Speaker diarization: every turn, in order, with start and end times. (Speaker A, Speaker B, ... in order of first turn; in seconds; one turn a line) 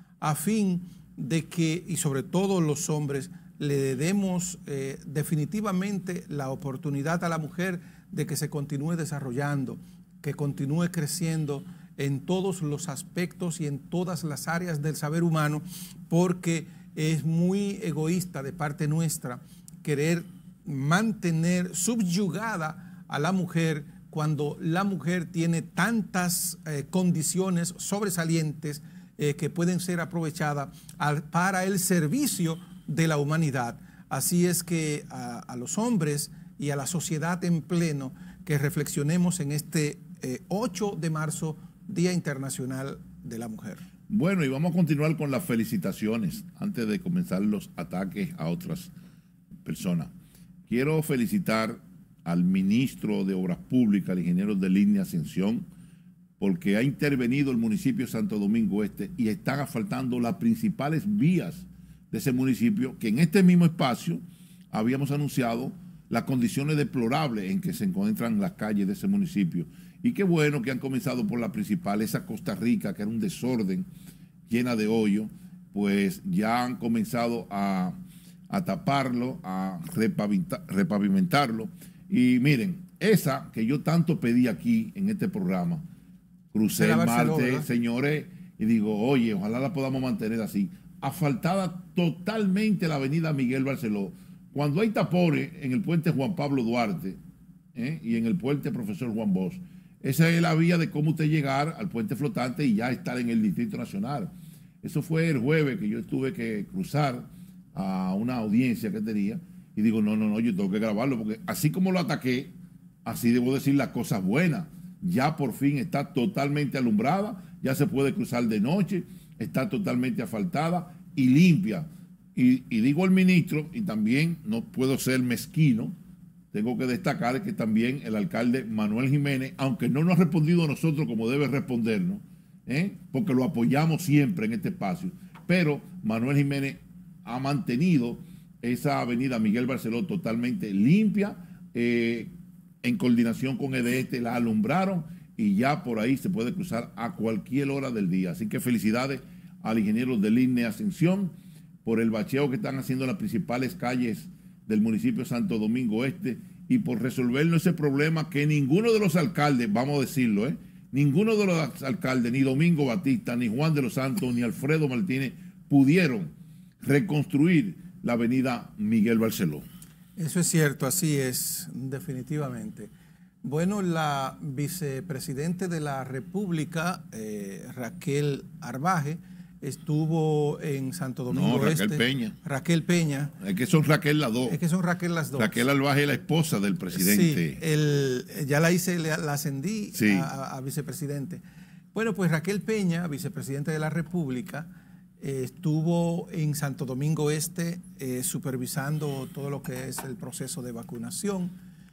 Speaker A: 0.2-43.8
Speaker B: 44.1-48.9
Speaker B: 49.6-50.1
Speaker B: 50.7-55.6
Speaker B: 56.4-73.9
Speaker B: 74.5-78.0
Speaker B: 78.5-85.8
Speaker B: 86.5-97.2
Speaker A: 86.7-87.7
Speaker B: 97.7-112.5
Speaker B: 113.0-125.9
Speaker B: 126.5-142.3
Speaker B: 142.8-151.3
Speaker B: 151.8-169.6
Speaker A: 170.2-172.9
Speaker A: 173.4-183.3
Speaker B: 181.3-182.3
Speaker B: 183.4-184.6
Speaker A: 184.4-185.6
Speaker B: 185.4-187.6
Speaker A: 186.9-191.4
Speaker B: 189.9-190.3
Speaker A: 191.9-201.5